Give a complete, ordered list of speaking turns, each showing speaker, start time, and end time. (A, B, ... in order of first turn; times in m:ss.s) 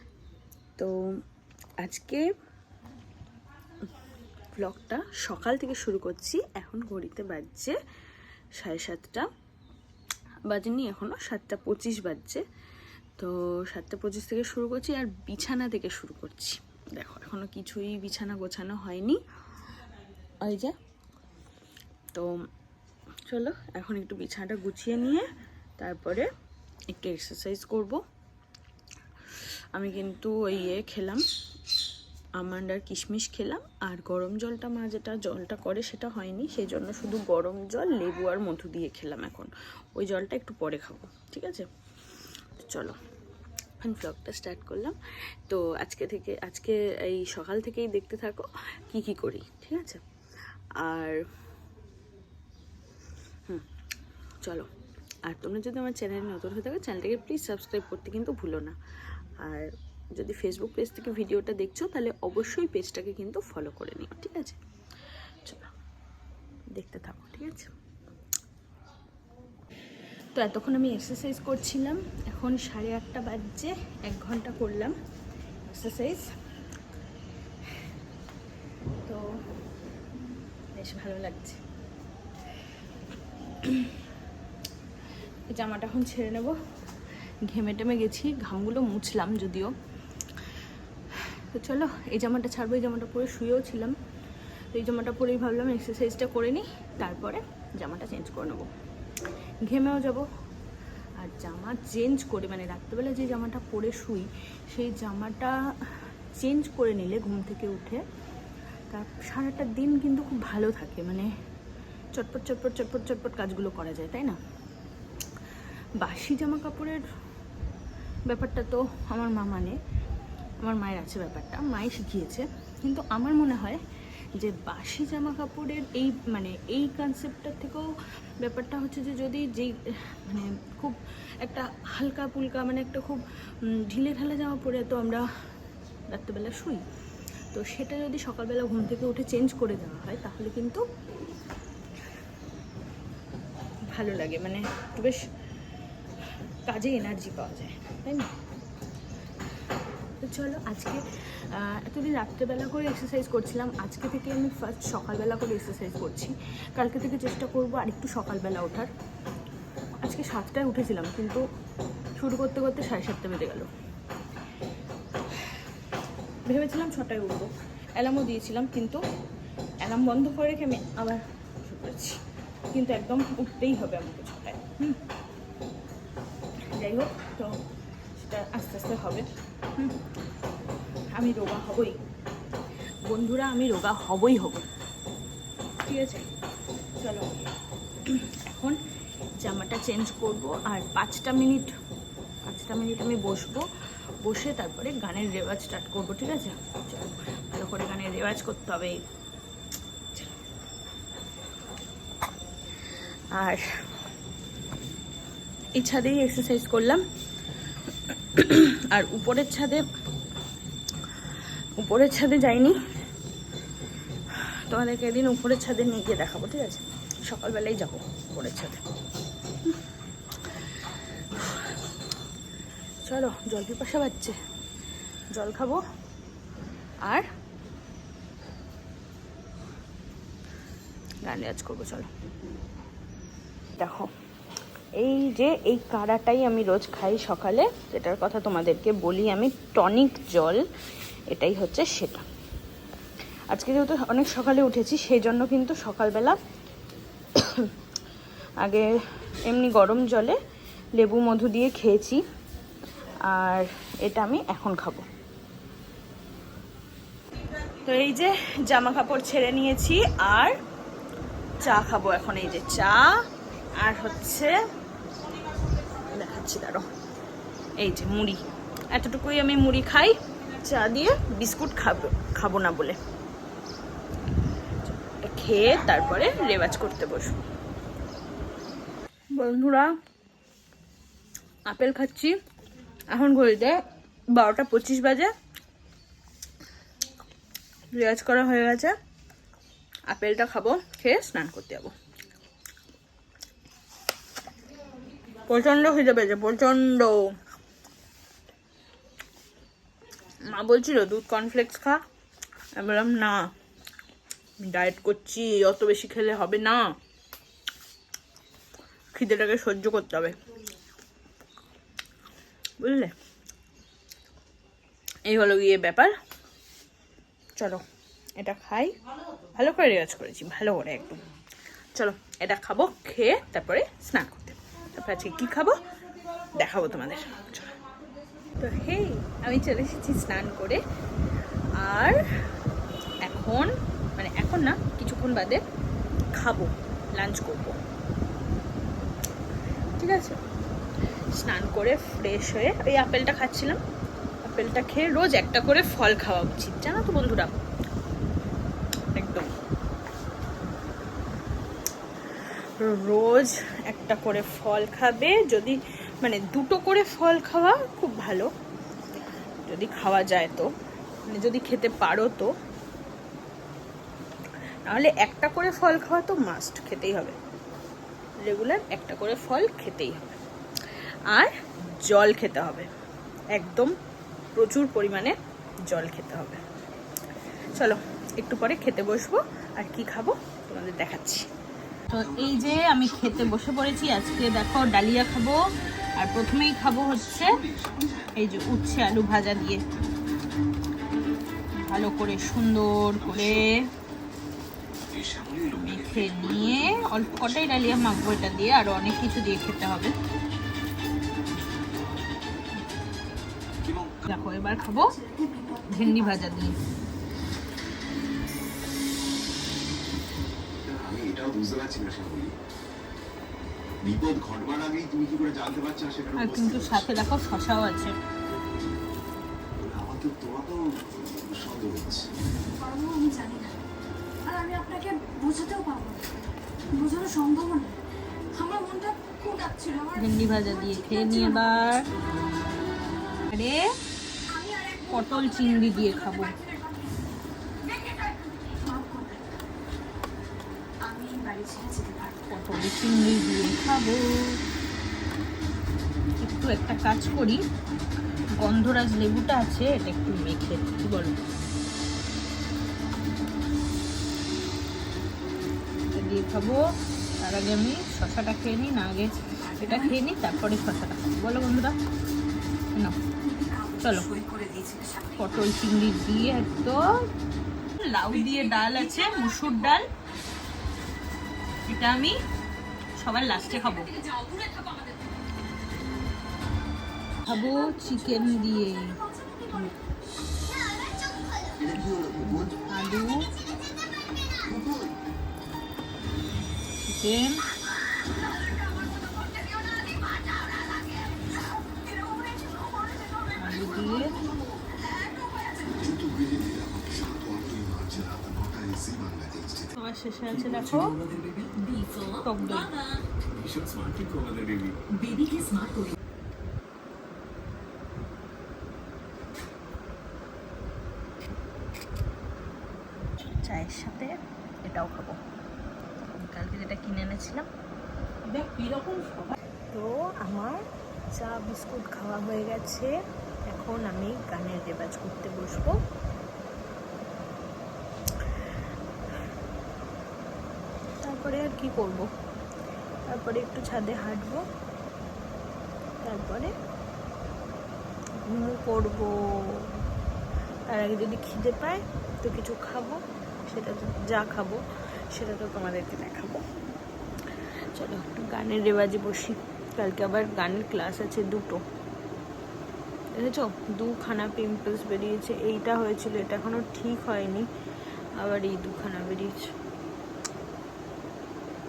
0:01.8-0:02.3 A
0:04.5-0:07.8 A
0:08.6-0:09.3 A
0:10.5-0:12.4 A
0:13.2-0:19.2 A
0:20.4-0:20.8 A
0:23.3-0:25.3 A
0:25.8-0:26.3 A
0:26.9-0:28.0 A
0:29.7-0:31.2 A
0:32.4-0:41.7 A
0:42.6-0:43.0 A
0:43.8-0:45.0 A
0:45.5-0:50.0 A
0:50.8-0:51.2 A
0:54.4-0:54.7 A
0:55.3-0:58.8 A
0:59.4-1:04.6 A
1:05.4-1:05.7 A
1:06.8-1:07.7 A
1:10.4-1:15.0 A
1:15.7-1:16.3 A
1:20.8-1:21.6 A
1:23.6-1:24.0 A
1:25.5-1:26.6 A
1:27.4-1:29.7 A
1:31.4-1:34.0 A
1:34.7-1:38.7 A
1:39.6-1:40.3 A
1:41.2-1:45.6 A
1:46.4-1:48.0 A
1:48.9-1:51.3 A
1:52.2-1:54.4 A
1:56.0-1:57.0 A
1:58.3-1:59.8 A
2:00.6-2:03.8 A
2:04.4-2:07.9 A
2:08.4-2:15.2 A
2:16.1-2:16.8 A
2:17.5-2:20.8 A
2:23.9-2:25.2 A
2:26.7-2:28.3 A
2:30.2-2:38.9 A
2:40.0-2:41.4 A
2:42.2-2:43.7 A
2:46.5-2:49.0 A
2:49.8-2:52.2 A
2:52.7-2:55.0 A
2:56.7-2:57.6 A
2:58.2-3:00.0 A
3:01.1-3:02.0 A
3:03.1-3:04.7 A
3:05.8-3:06.3 A
3:07.0-3:07.4 A
3:08.0-3:08.8 A
3:09.4-3:11.7 A
3:12.5-3:13.6 A
3:14.2-3:19.0 A
3:23.4-3:23.6 A
3:25.8-3:27.0 A
3:28.1-3:29.8 A
3:31.8-3:32.8 A
3:34.3-3:38.8 A
3:41.3-3:41.6 A
3:43.1-3:44.4 A
3:45.3-3:45.8 A
3:51.2-3:52.1 A
3:53.8-3:54.1 A
3:55.0-4:00.6 A
4:01.3-4:02.2 A
4:03.5-4:06.4 A
4:07.4-4:07.7 A
4:08.6-4:08.9 A
4:09.4-4:10.4 A
4:11.0-4:12.2 A
4:13.2-4:15.1 A
4:17.8-4:20.6 A
4:21.6-4:23.1 A
4:23.8-4:24.6 A
4:26.0-4:26.9 A
4:27.8-4:33.0 A
4:35.0-4:37.4 A
4:39.4-4:39.9 A
4:41.7-4:42.3 A
4:43.1-4:43.8 A
4:44.4-4:45.3 A
4:47.9-4:49.0 A
4:50.1-4:51.9 A
4:55.5-4:57.3 A
5:00.4-5:02.0 A
5:02.8-5:03.5 A
5:04.6-5:06.9 A
5:09.1-5:10.4 A
5:12.8-5:13.1 A
5:15.3-5:16.1 A
5:17.6-5:17.8 A
5:18.4-5:19.0 A
5:19.6-5:21.2 A
5:22.0-5:25.8 A
5:26.5-5:27.8 A
5:28.6-5:30.8 A
5:31.8-5:32.2 A
5:33.2-5:35.6 A
5:36.4-5:37.8 A
5:40.0-5:40.4 A
5:41.4-5:43.8 A
5:44.4-5:47.6 A
5:49.1-5:49.5 A
5:52.8-5:58.5 A
5:59.7-6:00.7 A
6:01.3-6:02.5 A
6:04.9-6:07.4 A
6:08.4-6:10.4 A
6:11.3-6:12.9 A
6:13.6-6:13.9 A
6:14.6-6:16.6 A
6:17.7-6:21.5 A
6:22.1-6:23.6 B
6:22.1-6:25.6 A
6:26.2-6:27.6 A
6:27.1-6:28.4 B
6:28.4-6:29.8 A
6:31.8-6:33.9 A
6:33.2-6:33.7 B
6:35.1-6:38.4 B
6:35.7-6:40.1 A
6:43.8-6:44.2 B
6:44.3-6:45.1 A
6:44.8-6:46.6 C
6:45.9-6:46.7 A
6:50.8-6:52.5 B
6:54.0-6:57.1 B
6:56.4-6:58.1 A
6:59.8-7:02.3 B
7:02.7-7:03.8 C
7:04.5-7:06.4 C
7:06.9-7:08.0 C
7:08.5-7:12.2 C
7:10.2-7:12.1 A
7:13.5-7:13.9 A
7:14.5-7:19.6 C
7:15.1-7:16.6 A
7:21.0-7:22.5 C
7:22.5-7:24.3 A
7:26.4-7:27.6 A
7:28.6-7:31.4 A
7:36.1-7:36.8 A
7:37.4-7:42.0 A
7:39.7-7:40.1 C
7:43.4-7:45.5 C
7:44.0-7:44.3 A
7:45.4-7:47.0 A
7:48.0-7:50.1 A
7:48.3-7:50.0 C
7:51.9-7:52.4 A
7:53.2-7:54.1 A
7:53.7-7:55.3 C
7:57.5-7:59.2 A
7:57.5-8:00.0 C
8:00.6-8:01.8 C
8:01.8-8:02.7 B
8:02.7-8:03.5 A
8:04.6-8:05.2 B
8:07.0-8:07.6 A
8:08.2-8:16.1 C
8:13.6-8:14.4 A
8:16.0-8:19.9 B
8:20.0-8:21.2 A
8:20.6-8:21.7 B
8:21.9-8:22.2 C
8:22.2-8:23.0 A
8:23.4-8:25.9 B
8:33.4-8:34.3 A
8:34.9-8:35.4 A
8:36.3-8:37.7 A
8:38.4-8:40.8 A
8:41.4-8:43.1 A
8:43.7-8:46.0 A
8:51.2-8:52.3 A
8:53.3-8:54.6 A
8:56.2-8:56.7 A
8:58.4-9:00.0 A
9:00.9-9:04.8 A
9:05.3-9:06.6 A
9:07.9-9:11.8 A
9:13.4-9:17.7 A
9:18.4-9:19.7 A